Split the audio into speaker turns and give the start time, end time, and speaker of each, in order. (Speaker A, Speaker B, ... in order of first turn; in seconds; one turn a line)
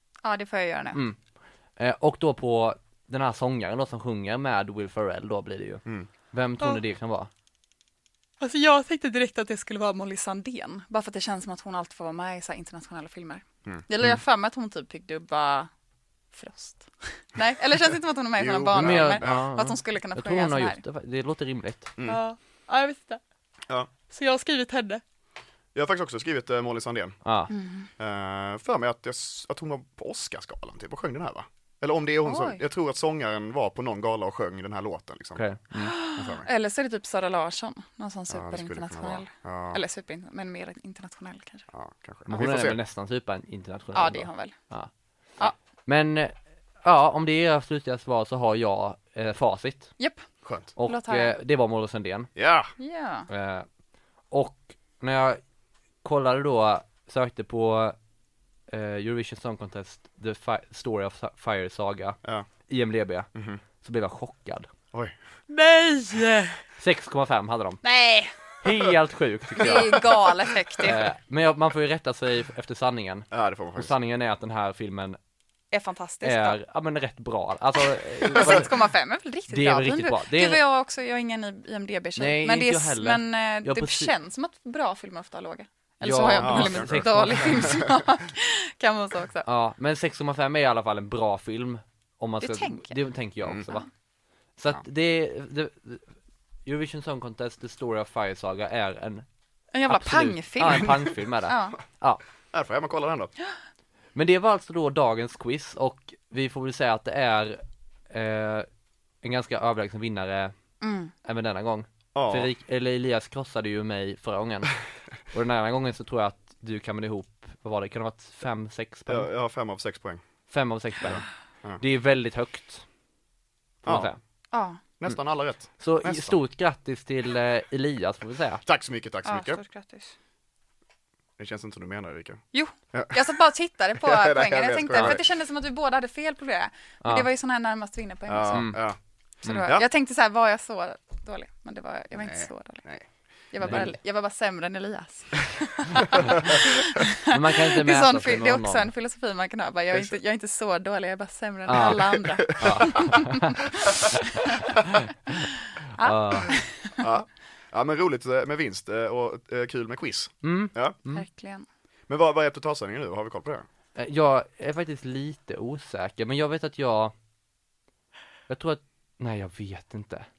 Speaker A: 0.2-1.0
Speaker B: 0.9-1.2
Speaker B: 1.8-7.3
Speaker A: 8.4-15.7
Speaker A: 16.3-20.8
Speaker C: 18.4-19.4
Speaker B: 18.8-21.9
Speaker A: 22.0-23.2
Speaker A: 24.1-25.0
Speaker C: 25.8-27.2
Speaker B: 27.2-27.5
Speaker A: 27.5-27.9
Speaker C: 28.0-35.4
Speaker A: 32.2-32.6
Speaker B: 35.4-36.0
Speaker A: 35.8-41.7
Speaker C: 36.2-36.5
Speaker C: 38.3-39.8
Speaker C: 41.7-42.8
Speaker B: 42.3-44.9
Speaker A: 43.9-44.5
Speaker B: 45.9-49.9
Speaker A: 50.0-51.4
Speaker C: 50.5-50.7
Speaker B: 50.8-52.3
Speaker C: 52.4-52.7
Speaker A: 52.8-53.3
Speaker B: 53.3-53.7
Speaker B: 54.3-55.4
Speaker B: 56.0-58.0
Speaker B: 58.7-63.3
Speaker C: 63.4-63.6
Speaker B: 63.8-64.7
Speaker A: 65.5-66.6
Speaker B: 66.8-67.8
Speaker A: 67.8-68.3
Speaker B: 68.6-70.1
Speaker A: 69.6-71.0
Speaker B: 70.8-75.2
Speaker C: 73.3-73.9
Speaker A: 75.7-76.6
Speaker B: 76.2-78.8
Speaker A: 78.3-89.5
Speaker B: 79.5-80.6
Speaker B: 82.2-84.1
Speaker B: 86.0-87.8
Speaker C: 86.3-87.7
Speaker B: 89.5-93.9
Speaker A: 92.4-93.0
Speaker B: 94.6-96.2
Speaker B: 96.7-99.3
Speaker A: 99.7-101.8
Speaker B: 99.9-102.2
Speaker C: 102.5-103.3
Speaker B: 104.2-108.7
Speaker B: 109.2-110.5
Speaker A: 110.8-111.1
Speaker B: 111.2-114.7
Speaker C: 112.2-112.5
Speaker B: 115.3-119.3
Speaker C: 119.1-120.2
Speaker B: 120.5-121.3
Speaker C: 121.0-121.8
Speaker B: 121.8-122.8
Speaker C: 123.8-124.1
Speaker B: 123.8-124.2
Speaker A: 124.5-124.8
Speaker C: 125.0-126.3
Speaker B: 125.8-128.6
Speaker C: 128.7-129.6
Speaker A: 129.2-130.1
Speaker C: 131.4-133.3
Speaker A: 132.5-138.7
Speaker C: 134.0-135.2
Speaker C: 138.3-139.0
Speaker B: 138.5-138.8
Speaker A: 139.4-142.8
Speaker C: 139.6-139.8
Speaker C: 142.2-143.1
Speaker A: 143.5-154.7
Speaker B: 143.6-143.9
Speaker B: 147.2-148.9
Speaker B: 151.7-154.2
Speaker B: 154.8-155.4
Speaker A: 156.0-157.1
Speaker B: 156.0-156.5
Speaker C: 157.0-161.0
Speaker B: 160.4-161.2
Speaker A: 161.1-161.7
Speaker C: 162.1-163.7
Speaker B: 164.0-167.1
Speaker B: 168.5-170.3